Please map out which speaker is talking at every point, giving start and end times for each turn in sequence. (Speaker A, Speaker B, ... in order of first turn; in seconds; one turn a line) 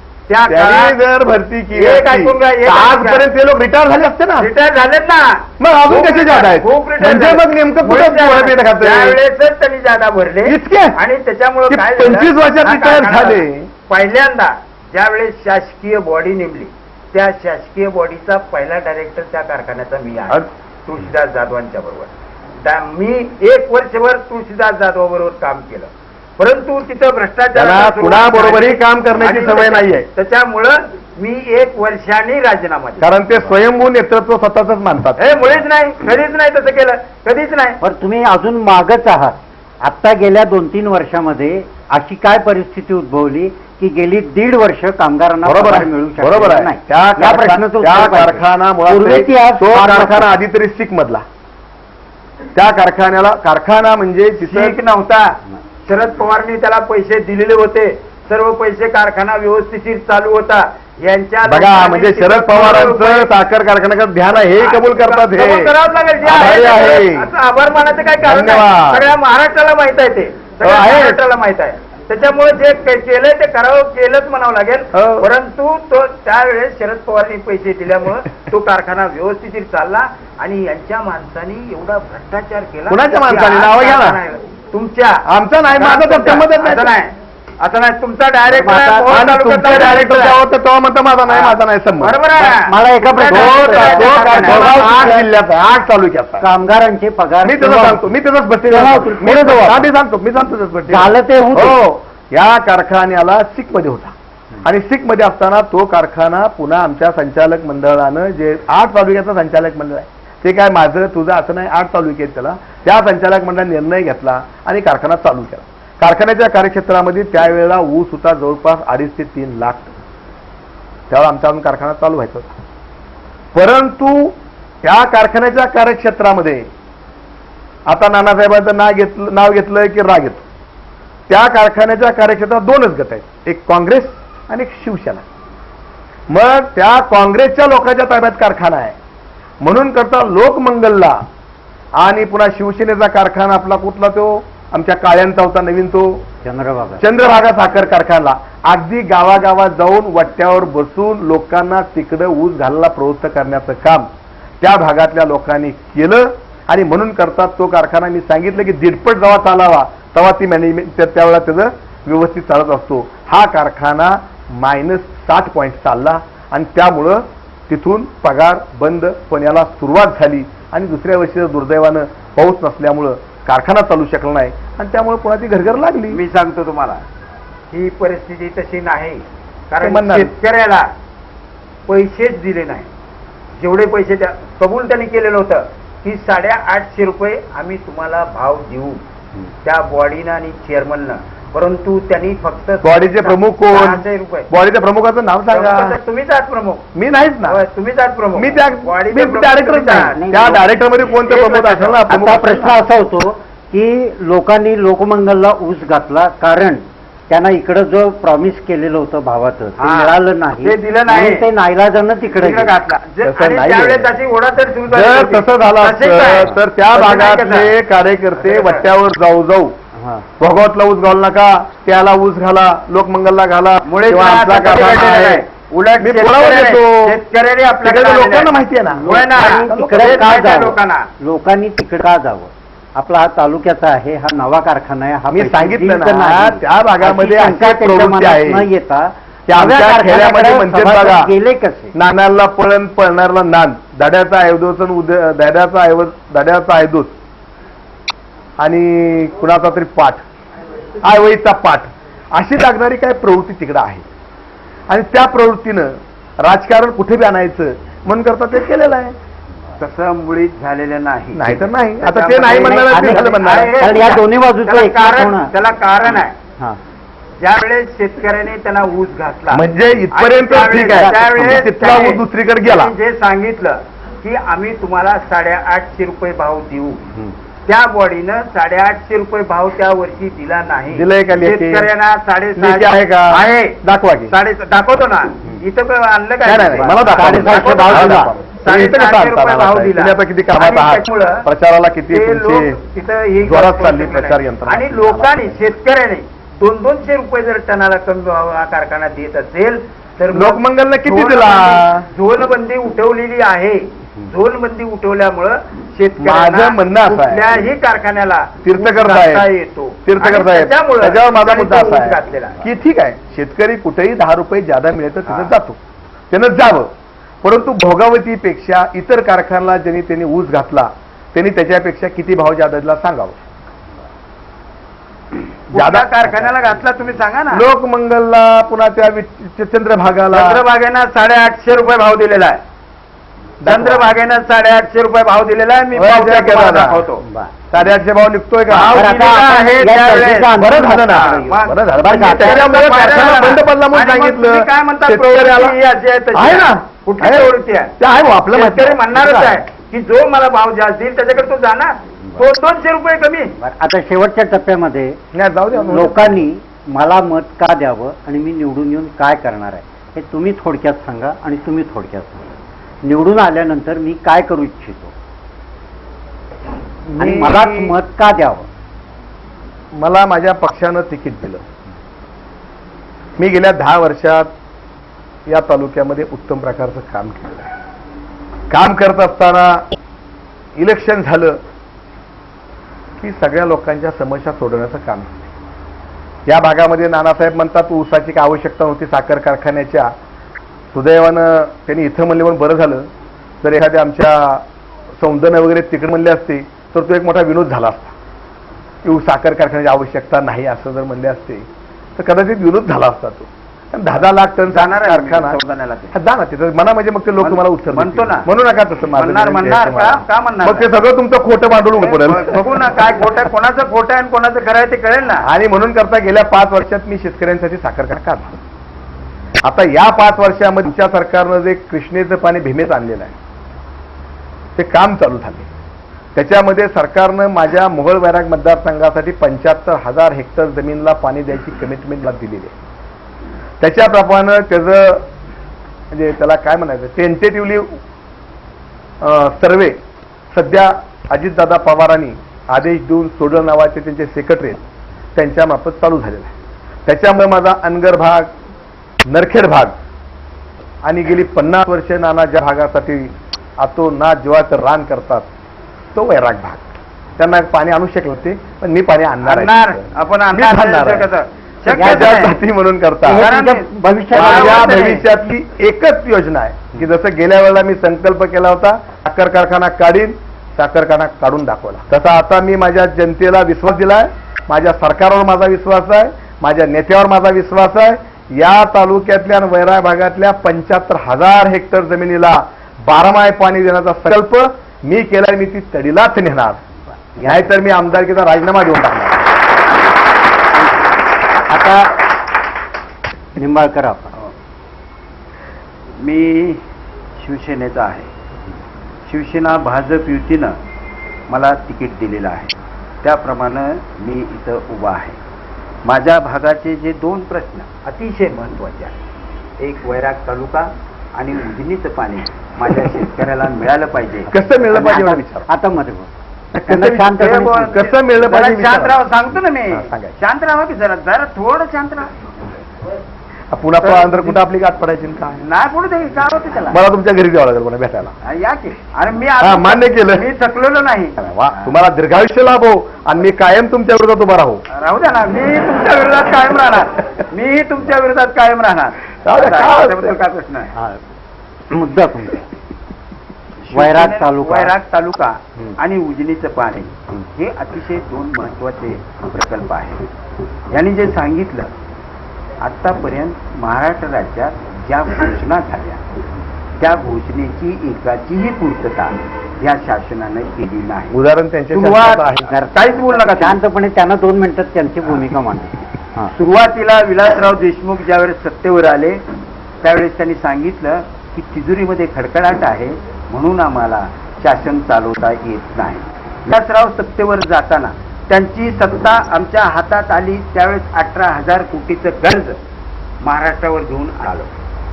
Speaker A: 0.3-1.0
Speaker B: 0.5-4.5
Speaker A: 1.7-3.2
Speaker A: 4.4-22.1
Speaker B: 5.6-9.2
Speaker B: 10.5-11.0
Speaker B: 11.7-13.7
Speaker A: 22.6-33.1
Speaker B: 27.6-30.1
Speaker B: 33.0-35.6
Speaker A: 35.2-37.8
Speaker C: 37.8-50.3
Speaker B: 45.5-51.2
Speaker B: 52.5-54.8
Speaker A: 54.4-63.3
Speaker B: 61.5-67.3
Speaker A: 64.6-90.4
Speaker B: 68.2-69.1
Speaker B: 70.6-71.2
Speaker B: 74.9-75.3
Speaker B: 82.9-84.2
Speaker B: 85.3-86.9
Speaker B: 88.5-92.3
Speaker C: 88.7-89.0
Speaker A: 91.3-95.1
Speaker C: 92.4-95.3
Speaker B: 93.3-96.5
Speaker C: 96.4-98.0
Speaker B: 97.4-120.0
Speaker C: 98.7-99.9
Speaker C: 100.9-101.8
Speaker B: 121.1-122.5
Speaker B: 123.5-126.7
Speaker B: 127.9-130.4
Speaker B: 131.3-135.2
Speaker B: 136.3-139.0
Speaker B: 139.6-141.2
Speaker B: 142.0-146.2
Speaker C: 146.4-147.0
Speaker B: 147.0-154.1
Speaker B: 154.6-176.2
Speaker A: 176.1-177.0
Speaker A: 177.7-180.9
Speaker B: 179.8-180.3
Speaker A: 181.9-182.9
Speaker A: 183.6-189.0
Speaker A: 189.7-194.5
Speaker B: 192.8-196.0
Speaker A: 195.5-196.8
Speaker B: 196.9-197.6
Speaker A: 197.5-202.1
Speaker B: 198.3-202.8
Speaker C: 200.2-200.5
Speaker C: 202.1-212.8
Speaker A: 209.8-211.4
Speaker A: 212.3-217.7
Speaker B: 213.2-214.1
Speaker B: 214.9-219.8
Speaker A: 218.4-218.9
Speaker C: 220.0-220.2
Speaker B: 220.4-225.4
Speaker A: 223.8-231.1
Speaker B: 226.0-227.2
Speaker B: 227.8-230.3
Speaker C: 229.1-241.9
Speaker B: 235.3-238.7
Speaker B: 239.5-241.3
Speaker B: 241.9-247.2
Speaker B: 248.6-250.2
Speaker B: 251.0-254.1
Speaker B: 254.9-259.1
Speaker A: 259.8-266.4
Speaker B: 261.3-263.8
Speaker C: 262.5-265.5
Speaker A: 267.4-277.1
Speaker B: 269.5-272.9
Speaker C: 270.9-271.6
Speaker A: 277.7-291.5
Speaker B: 280.9-281.9
Speaker B: 282.6-284.3
Speaker B: 286.4-292.8
Speaker C: 286.9-288.3
Speaker A: 292.1-312.6
Speaker B: 293.4-295.5
Speaker B: 300.3-302.1
Speaker B: 306.2-307.5
Speaker B: 308.6-309.5
Speaker B: 310.1-315.8
Speaker B: 316.3-316.9
Speaker B: 317.4-323.4
Speaker A: 325.7-327.6
Speaker B: 325.7-326.3
Speaker B: 327.5-330.6
Speaker A: 330.3-332.6
Speaker B: 333.6-334.1
Speaker A: 333.6-337.2
Speaker B: 335.9-337.1
Speaker C: 337.2-337.5
Speaker B: 337.7-339.1
Speaker A: 338.7-340.6
Speaker C: 338.9-341.4
Speaker B: 340.5-345.8
Speaker A: 341.1-347.9
Speaker C: 342.0-342.7
Speaker B: 346.3-349.6
Speaker A: 348.5-353.5
Speaker C: 353.6-355.2
Speaker B: 355.3-356.5
Speaker C: 355.9-365.1
Speaker B: 367.1-367.9
Speaker C: 367.2-368.7
Speaker B: 370.0-371.6
Speaker B: 373.4-374.5
Speaker B: 375.5-377.8
Speaker B: 378.7-379.9
Speaker B: 380.8-381.6
Speaker B: 383.2-385.5
Speaker B: 386.5-390.1
Speaker B: 390.9-393.1
Speaker B: 393.6-394.6
Speaker B: 395.2-398.1
Speaker B: 399.0-405.6
Speaker A: 404.7-406.2
Speaker B: 406.1-412.6
Speaker A: 407.4-408.5
Speaker A: 409.2-410.9
Speaker A: 412.0-415.5
Speaker B: 415.4-418.6
Speaker B: 419.6-423.4
Speaker B: 424.8-425.7
Speaker B: 426.4-432.8
Speaker B: 433.8-435.3
Speaker B: 436.1-438.0
Speaker B: 439.2-440.0
Speaker B: 440.5-444.8
Speaker B: 445.4-446.5
Speaker B: 447.1-448.5
Speaker B: 449.3-449.9
Speaker B: 451.0-455.5
Speaker B: 456.1-456.8
Speaker B: 457.4-461.3
Speaker A: 459.4-462.6
Speaker B: 461.9-463.5
Speaker C: 461.9-462.4
Speaker C: 463.3-465.0
Speaker A: 463.3-465.2
Speaker B: 464.3-486.8
Speaker C: 487.4-487.6
Speaker B: 487.4-489.5
Speaker C: 491.7-492.3
Speaker C: 493.6-494.3
Speaker A: 496.2-496.8
Speaker A: 497.4-498.3
Speaker A: 499.3-500.8
Speaker A: 501.5-505.4
Speaker A: 506.1-509.2
Speaker A: 509.8-514.5
Speaker B: 514.5-515.7
Speaker C: 514.8-516.3
Speaker B: 516.7-519.2
Speaker C: 516.9-518.0
Speaker A: 517.3-522.4
Speaker B: 519.9-520.4
Speaker B: 523.7-525.7
Speaker A: 524.0-524.5
Speaker A: 525.6-527.0
Speaker B: 526.9-528.4
Speaker A: 528.4-531.9
Speaker B: 529.6-530.5
Speaker B: 531.7-534.8
Speaker A: 534.9-540.9
Speaker B: 539.5-540.4
Speaker C: 541.9-542.7
Speaker A: 543.9-550.2
Speaker C: 543.9-544.9
Speaker A: 550.9-551.9
Speaker A: 552.8-556.2
Speaker A: 557.0-561.4
Speaker B: 561.3-562.8
Speaker A: 561.9-563.8
Speaker C: 562.7-566.5
Speaker A: 566.5-569.4
Speaker A: 570.0-582.8
Speaker A: 583.4-584.7